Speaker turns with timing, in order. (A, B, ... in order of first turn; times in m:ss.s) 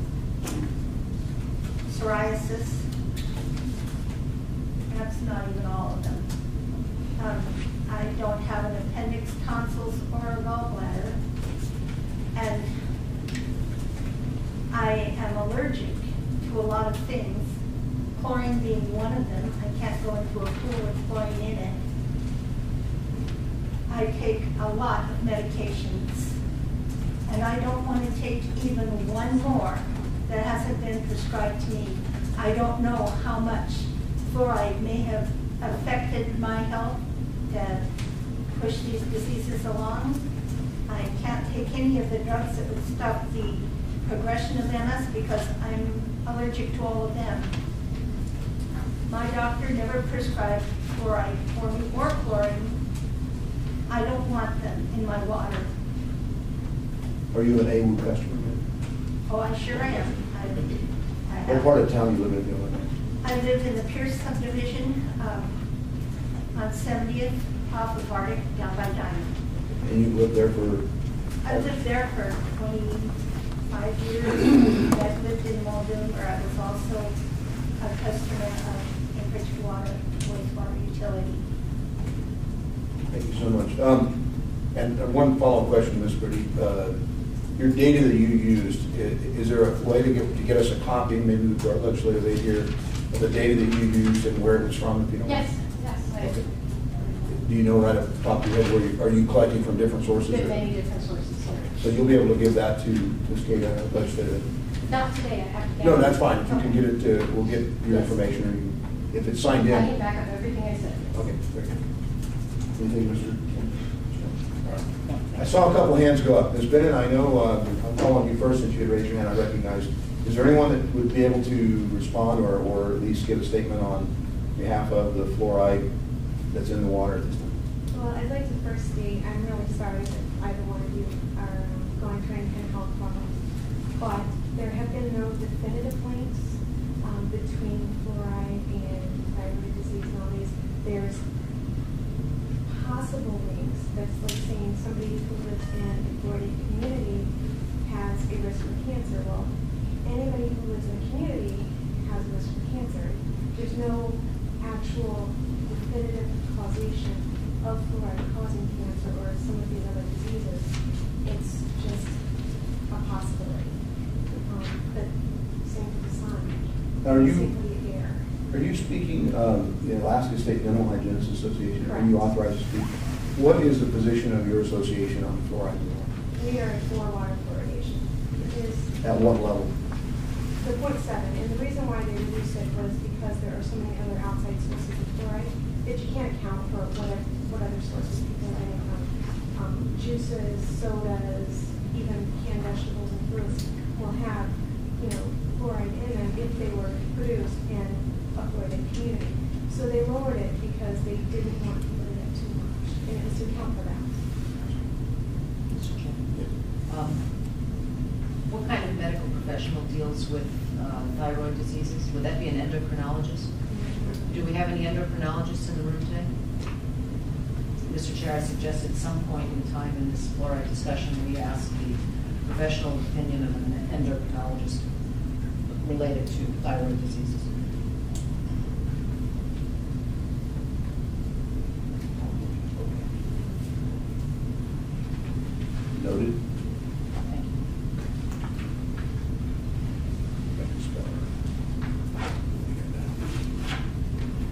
0:01.9-0:02.8 A
0:04.9-0:06.3 A
0:07.2-0:11.2 A
0:12.3-0:12.7 A
0:14.7-0:17.5 A
0:18.2-0:21.8 A
0:23.9-0:26.3 A
0:27.3-0:37.8 A
0:38.5-0:40.2 A
0:40.9-0:47.5 A
0:49.1-0:52.7 A
0:53.9-0:55.7 A
0:57.3-0:58.6 B
0:59.3-1:01.8 A
1:01.4-1:02.8 B
1:03.2-1:05.5 A
1:06.5-1:09.3 A
1:09.8-1:10.8 B
1:11.4-1:13.1 A
1:13.7-1:17.1 A
1:17.8-1:21.4 A
1:23.1-1:24.2 B
1:24.7-1:27.0 B
1:27.6-1:35.5 B
1:35.2-1:36.5 C
1:37.3-1:40.6 B
1:40.2-1:41.9 C
1:41.8-1:44.4 B
1:44.9-1:46.9 C
1:45.8-1:49.9 B
1:47.8-1:48.2 C
1:49.6-1:51.2 C
1:51.1-1:51.8 B
1:52.8-1:54.4 B
1:55.3-2:05.8 B
2:06.5-2:07.5 B
2:07.9-2:13.4 D
2:13.9-2:21.2 D
2:22.7-2:27.3 D
2:27.8-2:29.5 D
2:30.0-2:42.2 D
2:42.9-2:43.8 D
2:44.4-2:48.2 D
2:47.0-2:47.5 B
2:48.5-2:56.1 B
2:51.8-2:52.1 D
2:56.3-2:59.0 D
2:59.0-2:59.7 B
3:00.6-3:24.2 D
3:25.7-3:26.2 E
3:26.9-3:27.2 E
3:28.5-3:33.5 E
3:33.7-3:34.3 D
3:34.3-3:36.3 E
3:37.8-3:44.8 E
3:45.8-3:47.5 E
3:55.9-3:56.4 B
4:00.6-4:01.2 B
4:02.6-4:03.0 B